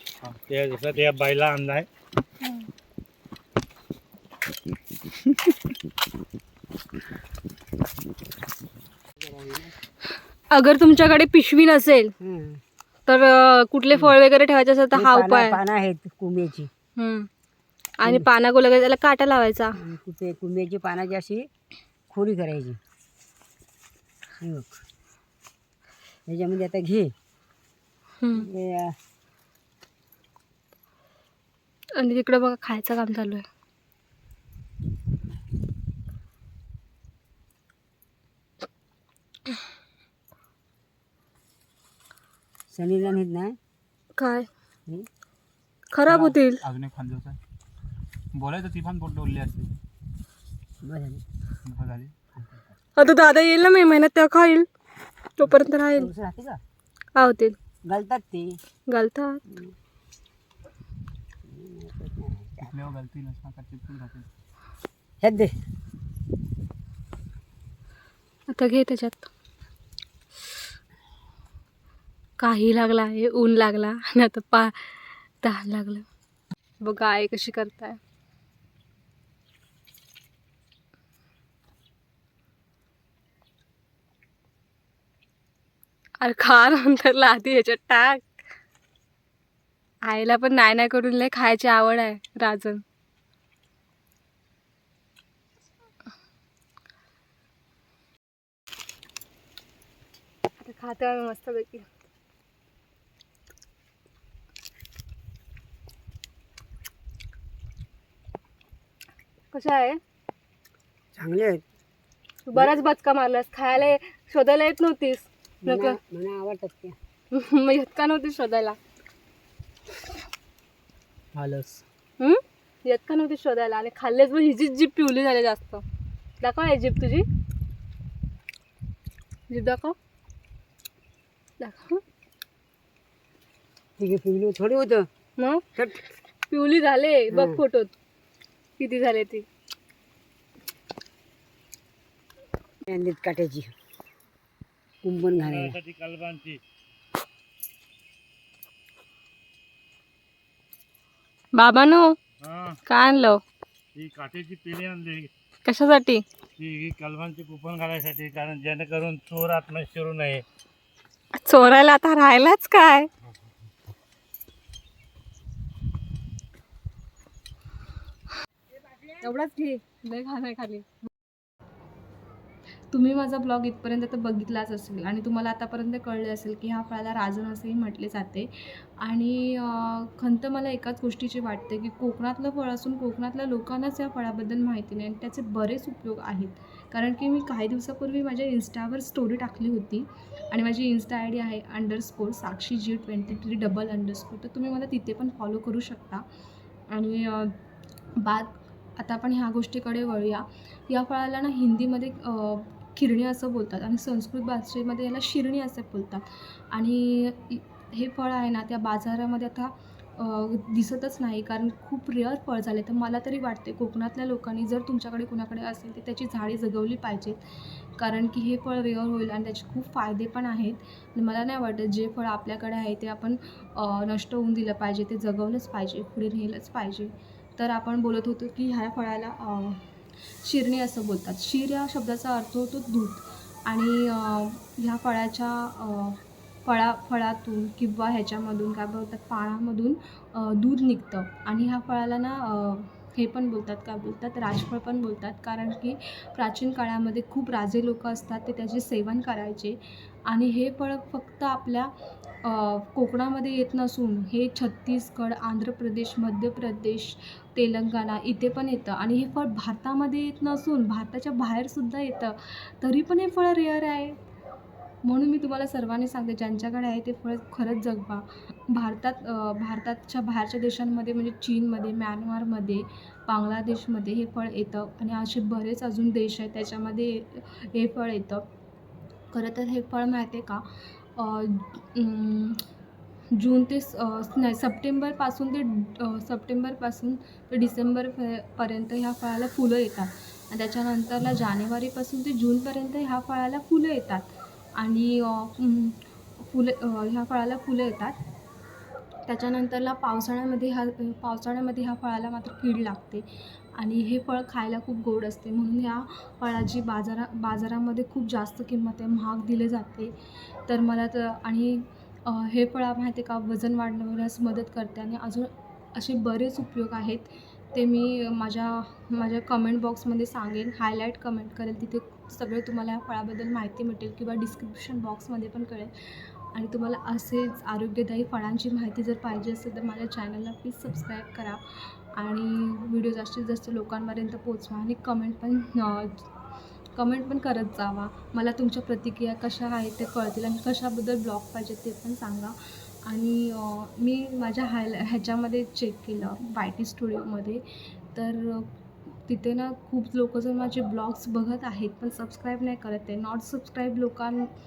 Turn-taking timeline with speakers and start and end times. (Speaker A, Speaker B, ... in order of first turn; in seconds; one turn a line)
Speaker A: 0.2-1.9
Speaker B: 2.4-2.7
Speaker C: 9.2-9.7
Speaker B: 10.5-12.1
Speaker C: 12.2-12.6
Speaker B: 13.1-15.6
Speaker C: 14.9-16.7
Speaker B: 17.0-17.3
Speaker B: 18.0-19.8
Speaker C: 19.8-21.5
Speaker C: 22.1-22.8
Speaker C: 24.4-24.8
Speaker C: 26.3-27.1
Speaker B: 28.2-28.5
Speaker C: 28.4-28.9
Speaker B: 31.9-33.4
Speaker C: 42.7-43.5
Speaker B: 44.2-44.5
Speaker B: 45.9-46.6
Speaker D: 46.1-47.4
Speaker D: 48.3-49.7
Speaker C: 50.8-51.2
Speaker D: 51.6-52.4
Speaker B: 53.0-54.7
Speaker B: 55.4-56.1
Speaker C: 56.0-56.6
Speaker B: 57.1-57.5
Speaker C: 57.9-58.6
Speaker B: 58.9-59.4
Speaker C: 61.4-62.7
Speaker D: 62.6-64.2
Speaker C: 65.2-65.5
Speaker B: 68.5-69.3
Speaker B: 72.4-76.0
Speaker B: 76.8-78.0
Speaker B: 86.2-88.3
Speaker B: 90.1-92.8
Speaker B: 100.6-101.9
Speaker B: 109.5-110.0
Speaker C: 111.1-111.6
Speaker B: 112.5-116.0
Speaker C: 115.6-117.0
Speaker B: 117.3-118.8
Speaker D: 121.3-121.8
Speaker B: 122.2-125.8
Speaker B: 126.4-127.2
Speaker B: 129.5-129.9
Speaker B: 131.6-132.0
Speaker C: 134.0-135.1
Speaker B: 135.4-135.6
Speaker C: 135.8-136.0
Speaker B: 136.5-137.9
Speaker C: 137.3-137.6
Speaker B: 138.8-139.4
Speaker C: 142.9-143.7
Speaker C: 145.0-145.8
Speaker A: 145.4-146.6
Speaker B: 151.5-152.1
Speaker A: 152.4-152.8
Speaker B: 152.8-153.4
Speaker A: 153.9-155.3
Speaker B: 155.6-156.2
Speaker A: 156.6-160.4
Speaker B: 161.3-163.1
Speaker B: 169.2-171.1
Speaker B: 172.9-196.2
Speaker B: 196.9-197.6
Speaker B: 198.2-217.4
Speaker B: 218.0-229.8
Speaker B: 230.4-249.8
Speaker B: 250.3-251.9
Speaker B: 252.4-264.2
Speaker B: 265.0-278.4
Speaker B: 279.3-280.6
Speaker B: 281.1-282.6
Speaker B: 283.4-298.2
Speaker B: 299.3-303.2
Speaker B: 303.8-310.1
Speaker B: 310.7-325.9
Speaker B: 326.5-336.3
Speaker B: 336.9-347.6
Speaker B: 348.1-348.7
Speaker B: 349.3-354.5